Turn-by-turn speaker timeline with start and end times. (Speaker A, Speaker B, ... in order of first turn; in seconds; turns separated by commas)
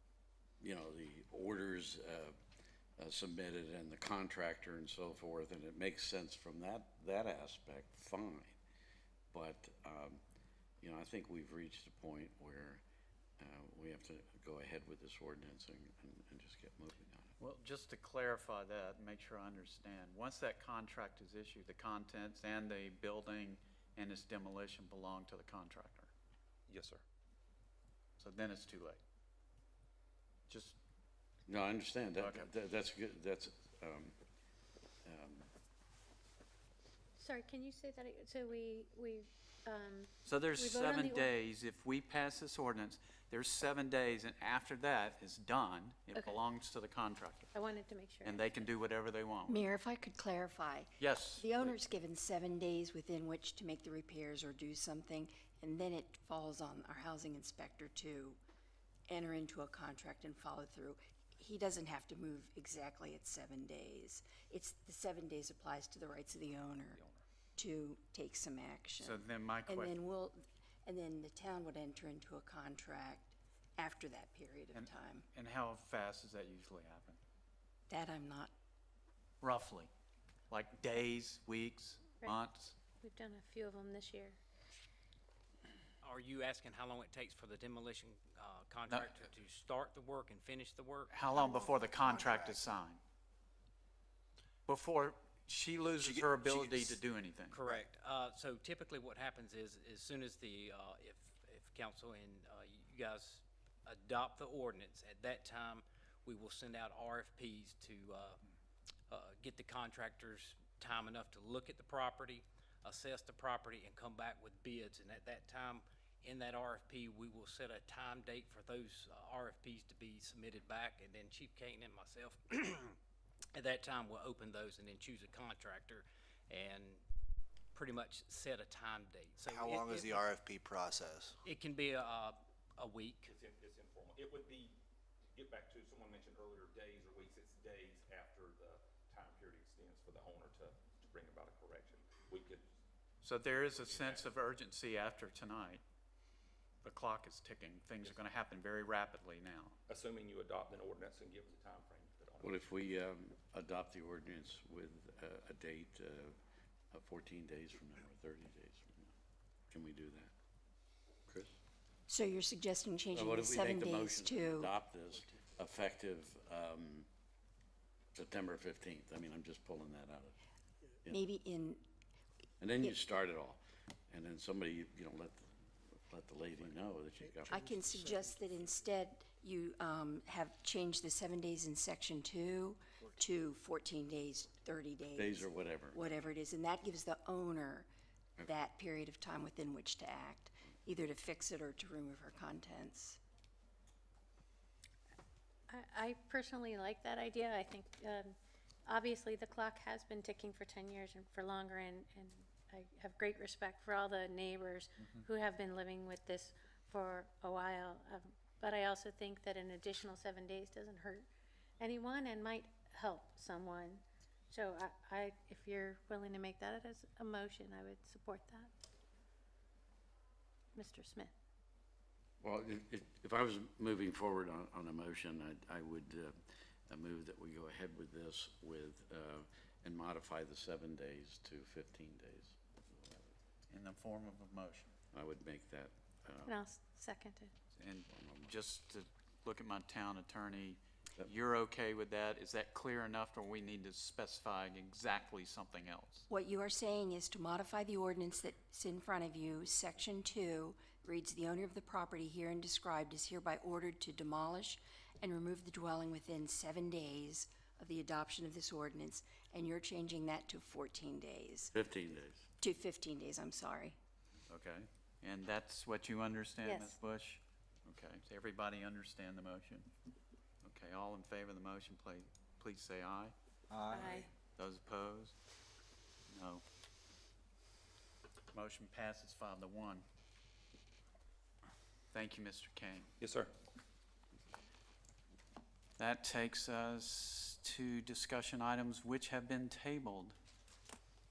Speaker A: 0.6-2.4, Speaker A: 3.0-8.6, Speaker A: 9.3-10.2, Speaker A: 10.8-12.8, Speaker A: 13.4-17.3, Speaker B: 17.4-26.1, Speaker C: 26.7-27.0, Speaker B: 28.2-29.0, Speaker B: 30.5-30.8, Speaker A: 31.5-34.1, Speaker B: 32.2-32.5, Speaker A: 35.0-35.5, Speaker D: 37.2-41.3, Speaker B: 40.2-47.5, Speaker D: 47.5-48.4, Speaker B: 48.2-49.6, Speaker E: 49.5-58.4, Speaker B: 51.0-51.7, Speaker E: 59.1-67.0, Speaker C: 66.9-67.2, Speaker E: 67.5-75.3, Speaker B: 69.0-69.9, Speaker B: 74.7-77.2, Speaker E: 77.9-78.5, Speaker B: 79.4-79.9, Speaker B: 80.5-82.8, Speaker D: 83.0-84.4, Speaker F: 86.0-91.1, Speaker B: 88.9-89.1, Speaker B: 91.1-93.0, Speaker G: 91.5-92.7, Speaker B: 94.7-97.6, Speaker G: 96.0-97.0, Speaker F: 97.5-108.4, Speaker F: 109.1-123.0, Speaker F: 123.5-127.0, Speaker F: 127.7-130.4, Speaker G: 129.4-131.4, Speaker F: 131.4-133.3, Speaker C: 133.2-134.8, Speaker C: 135.3-142.7, Speaker B: 143.2-145.8, Speaker C: 143.6-144.3, Speaker B: 146.8-149.8, Speaker C: 149.9-152.6, Speaker A: 152.4-156.3, Speaker A: 156.9-159.1, Speaker A: 159.7-160.3, Speaker A: 161.3-161.5, Speaker E: 162.1-164.7, Speaker A: 163.1-167.1, Speaker A: 168.1-170.3, Speaker E: 171.1-171.8, Speaker A: 172.6-175.5, Speaker A: 176.0-177.8, Speaker E: 177.5-187.9, Speaker A: 185.2-186.0, Speaker E: 188.4-193.2, Speaker D: 195.7-198.2, Speaker D: 198.9-211.2, Speaker D: 211.8-213.9, Speaker D: 214.5-218.7, Speaker D: 220.8-221.2, Speaker A: 222.4-233.2, Speaker B: 233.7-234.9, Speaker A: 235.1-236.6, Speaker D: 236.5-237.5, Speaker B: 237.7-246.2, Speaker A: 238.1-238.5, Speaker E: 246.3-261.7, Speaker A: 261.7-262.5, Speaker E: 262.6-264.0, Speaker B: 264.5-269.9, Speaker B: 270.6-273.3, Speaker G: 273.7-274.2, Speaker D: 273.9-274.2, Speaker B: 274.6-275.3, Speaker B: 276.3-276.6, Speaker B: 278.5-280.0, Speaker B: 282.1-283.1, Speaker C: 283.2-283.5, Speaker B: 286.0-290.4